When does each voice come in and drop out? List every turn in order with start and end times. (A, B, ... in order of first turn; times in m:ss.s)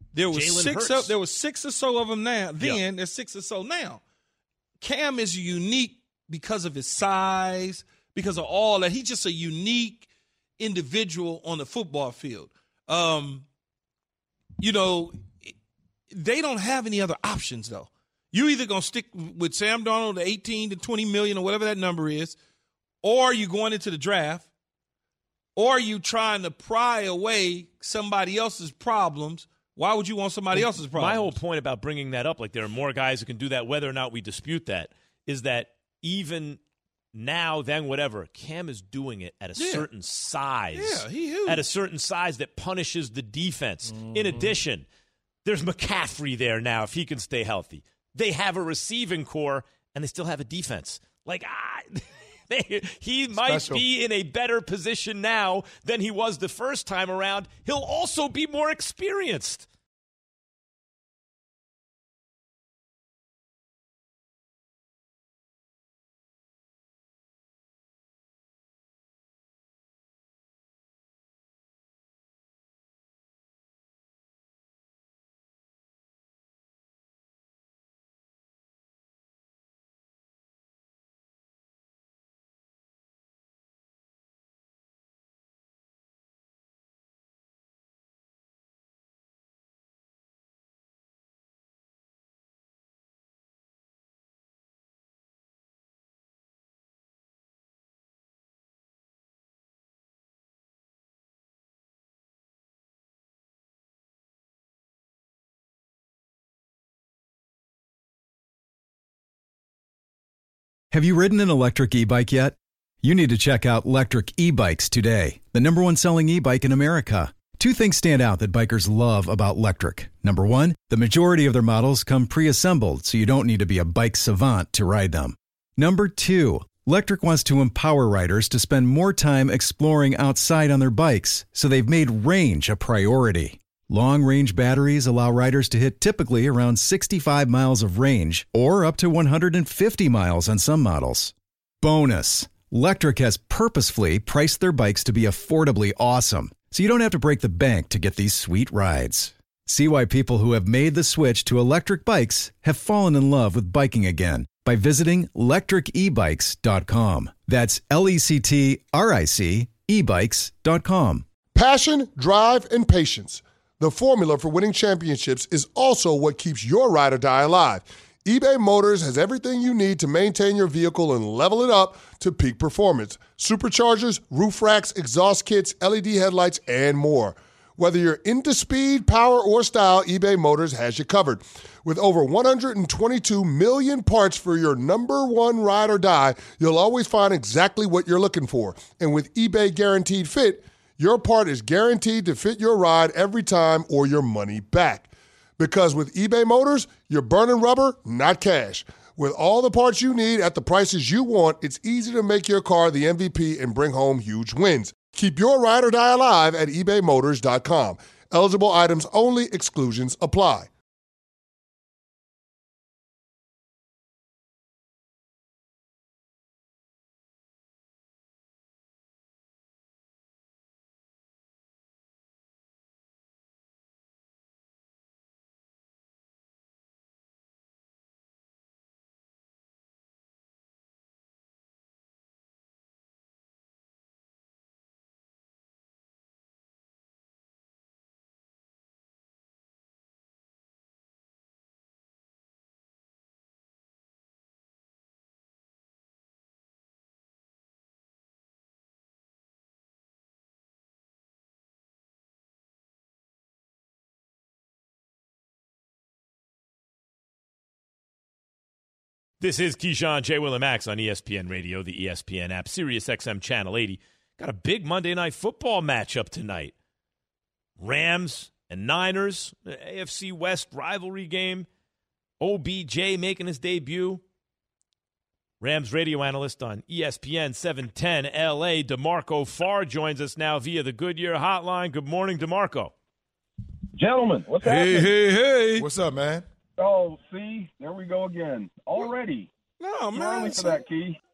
0:00.1-0:04.0 A
0:00.3-0:01.2 B
0:04.8-0:13.5 A
0:14.6-0:15.5 A
0:16.1-0:22.4 A
0:23.0-0:24.5 A
0:25.6-0:31.4 A
0:30.5-0:36.6 B
0:37.1-0:44.9 B
0:39.6-0:39.9 A
0:40.7-0:41.6 A
0:43.9-0:44.6 C
0:45.4-0:59.7 B
0:53.4-0:53.8 C
1:50.9-2:41.3 D
2:41.5-3:30.7 E
4:19.4-4:26.7 B
4:27.8-4:31.7 B
4:32.4-4:34.2 B
4:35.6-4:42.9 B
4:43.9-4:45.1 F
4:44.6-4:45.9 A
4:45.8-4:46.4 C
4:46.8-4:49.5 F
4:49.8-4:50.8 A
4:50.1-4:51.2 F